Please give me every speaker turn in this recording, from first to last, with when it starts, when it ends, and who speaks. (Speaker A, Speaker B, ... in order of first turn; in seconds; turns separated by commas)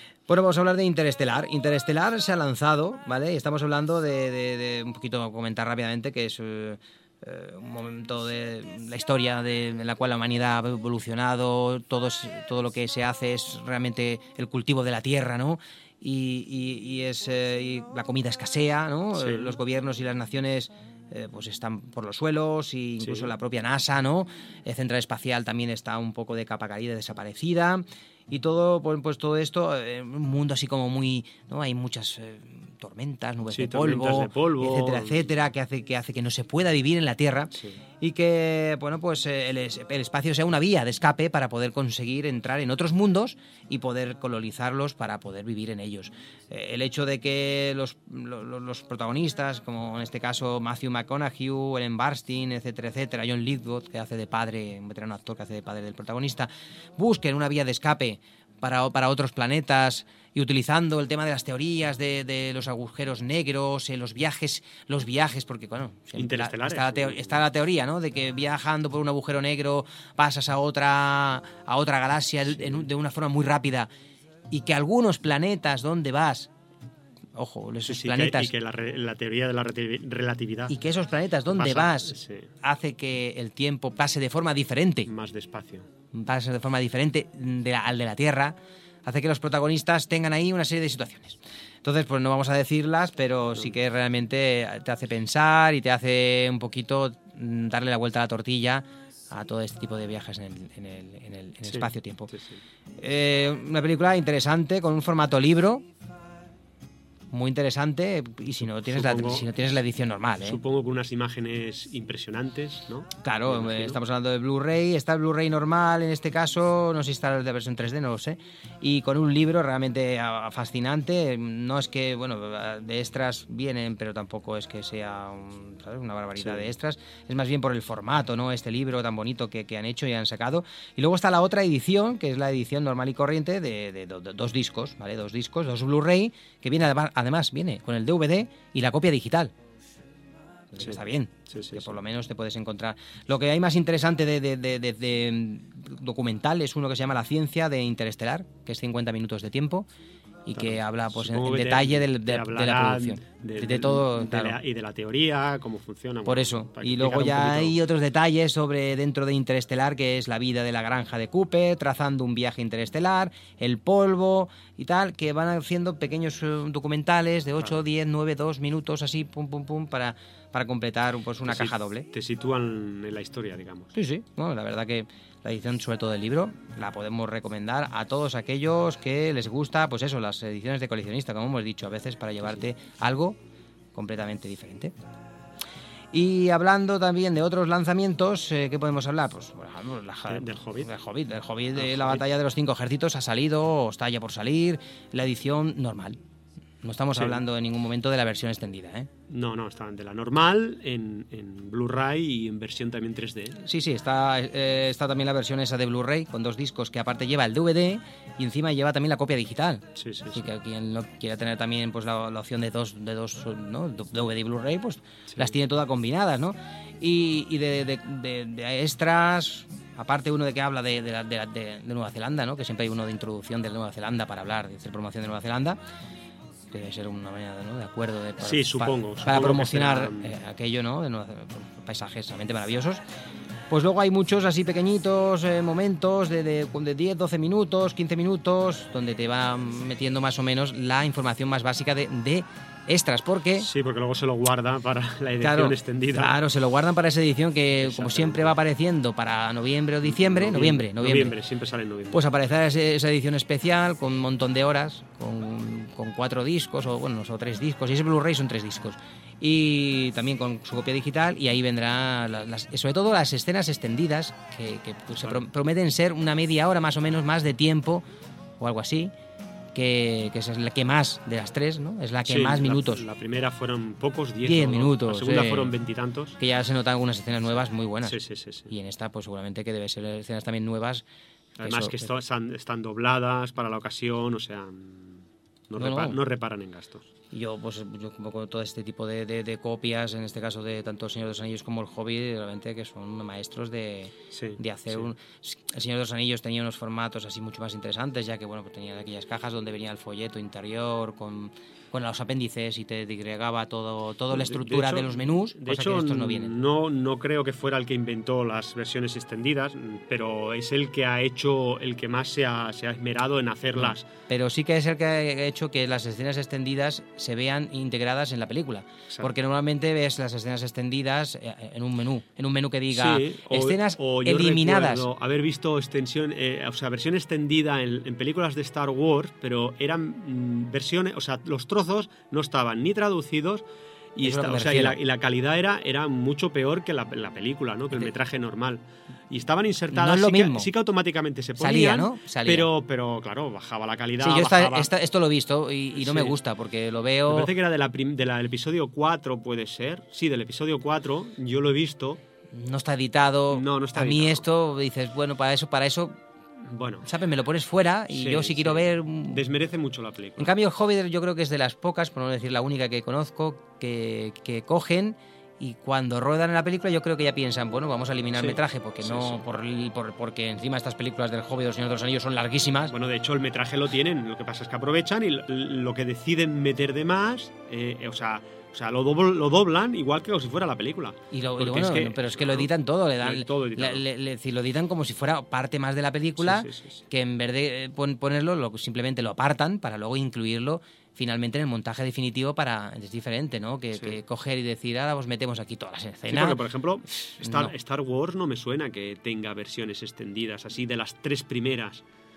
Speaker A: 0.3-73.9, Speaker B: 19.2-19.5, Speaker B: 23.0-23.3, Speaker B: 33.5-35.3, Speaker B: 37.5-37.8, Speaker B: 66.2-67.4, Speaker A: 74.5-76.5, Speaker A: 77.3-78.5, Speaker B: 77.9-80.8, Speaker A: 80.7-85.1, Speaker B: 81.5-82.5, Speaker B: 85.1-85.9, Speaker A: 86.1-102.3, Speaker B: 101.7-102.6, Speaker A: 103.0-105.9, Speaker A: 107.3-110.6, Speaker B: 108.9-109.5, Speaker B: 110.4-114.0, Speaker A: 113.2-139.5, Speaker B: 126.4-126.7, Speaker A: 140.7-149.9, Speaker B: 141.5-141.9, Speaker A: 150.4-154.6, Speaker B: 150.6-157.8, Speaker A: 156.2-172.1, Speaker B: 171.5-173.9, Speaker A: 173.9-183.4, Speaker A: 183.9-184.9, Speaker A: 186.1-196.2, Speaker B: 190.3-190.9, Speaker B: 191.8-192.2, Speaker A: 196.8-199.1, Speaker B: 197.2-197.4, Speaker B: 199.3-203.6, Speaker A: 203.6-225.8, Speaker B: 210.0-210.5, Speaker A: 226.7-233.0, Speaker B: 228.4-230.3, Speaker A: 233.7-243.7, Speaker B: 243.6-246.3, Speaker A: 245.4-251.4, Speaker B: 247.8-248.6, Speaker B: 250.0-252.2, Speaker A: 252.1-268.1, Speaker A: 268.6-269.1, Speaker A: 269.7-273.1, Speaker B: 272.3-276.4, Speaker A: 274.4-275.7, Speaker A: 276.4-281.1, Speaker B: 278.0-278.7, Speaker B: 281.6-287.1, Speaker A: 281.6-282.1, Speaker A: 285.8-286.2, Speaker A: 287.3-306.5, Speaker B: 294.3-295.1, Speaker B: 304.3-314.1, Speaker A: 313.8-325.1, Speaker B: 322.9-333.6, Speaker B: 334.2-344.9, Speaker A: 334.2-335.0, Speaker A: 339.9-340.7, Speaker A: 341.6-342.7, Speaker A: 344.2-347.5, Speaker B: 345.9-346.4, Speaker B: 347.3-352.2, Speaker A: 352.5-356.2, Speaker B: 353.5-354.4, Speaker B: 356.7-357.1, Speaker A: 357.0-359.4, Speaker B: 358.1-360.5, Speaker A: 360.4-372.9, Speaker B: 368.4-369.4, Speaker B: 372.9-384.0, Speaker A: 381.3-396.6, Speaker B: 386.4-387.0, Speaker B: 396.3-402.0, Speaker A: 397.3-397.7